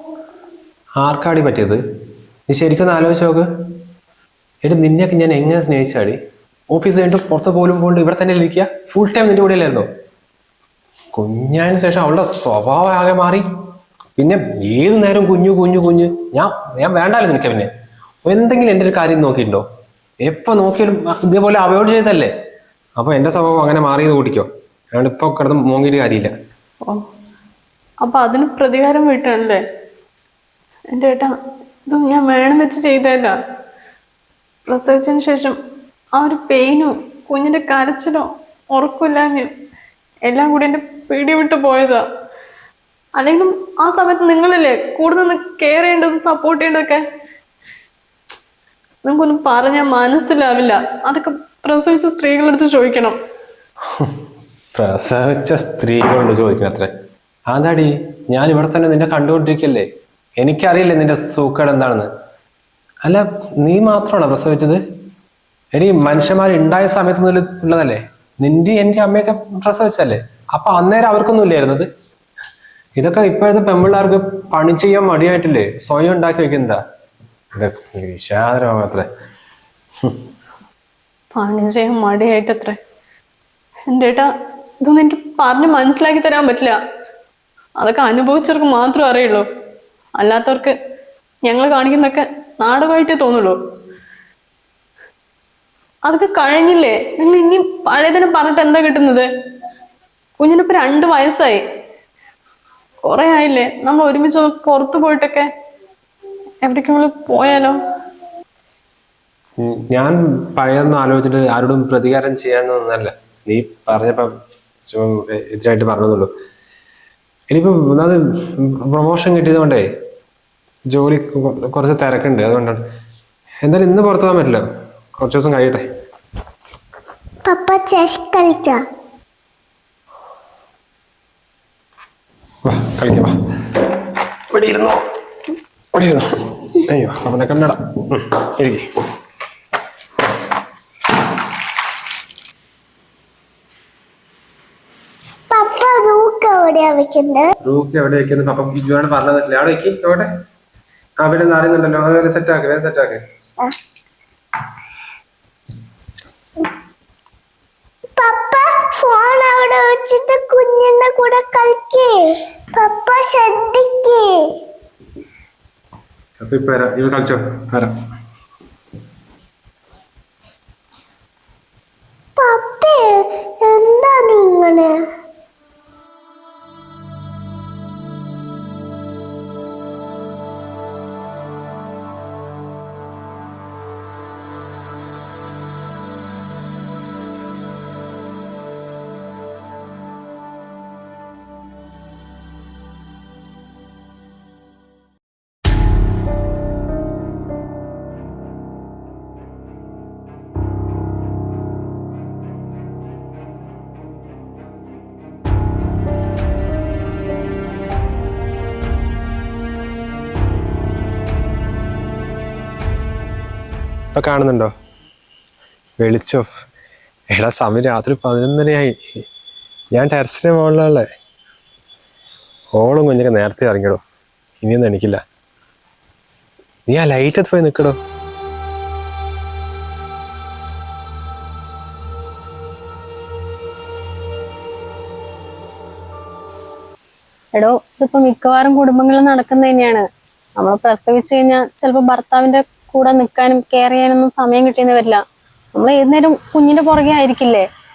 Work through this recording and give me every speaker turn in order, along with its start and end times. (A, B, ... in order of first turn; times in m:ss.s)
0:01.0-0:01.8 A
0:02.5-0:03.5 A
0:04.6-0:06.2 A
0:06.7-0:09.9 A
0:11.1-0:13.4 A
0:14.2-0:17.7 A
0:18.2-0:19.6 A
0:20.2-0:22.3 A
0:23.0-0:26.3 A
0:28.0-0:29.6 B
0:30.9-0:31.4 B
0:31.9-0:33.4 B
0:34.6-0:35.6 B
0:36.1-0:39.5 B
0:40.2-0:42.0 B
0:43.2-0:47.0 B
0:49.0-0:53.2 B
0:54.7-0:56.9 A
0:57.5-0:59.9 A
1:00.4-1:02.1 A
1:03.0-1:04.8 A
1:05.7-1:11.9 A
1:13.0-1:16.8 A
1:17.5-1:19.1 A
1:21.4-1:22.8 B
1:23.9-1:26.8 B
1:27.8-1:29.4 B
1:30.2-1:30.7 B
1:31.4-1:33.6 B
1:36.0-1:39.3 B
1:40.4-1:41.6 B
1:43.0-1:45.5 B
1:46.6-1:47.8 B
1:49.6-1:54.3 A
1:54.9-1:56.3 A
1:57.5-1:59.9 A
2:00.9-2:02.8 A
2:03.6-2:04.6 A
2:05.2-2:05.8 A
2:07.4-2:08.8 C
2:12.6-2:13.8 A
2:14.5-2:15.0 A
2:15.9-2:18.8 A
2:25.5-2:27.5 C
2:27.6-2:30.3 A
2:31.2-2:33.2 A
2:38.2-2:44.4 C
2:46.4-2:47.9 A
2:52.4-2:55.0 C
3:34.1-3:34.7 A
3:36.0-3:36.5 A
3:37.3-3:39.0 A
3:39.9-3:41.0 A
3:42.8-3:44.0 A
3:44.6-3:45.2 A
3:46.9-3:48.0 A
3:57.6-4:00.0 B
4:00.6-4:05.2 B
4:05.7-4:07.6 B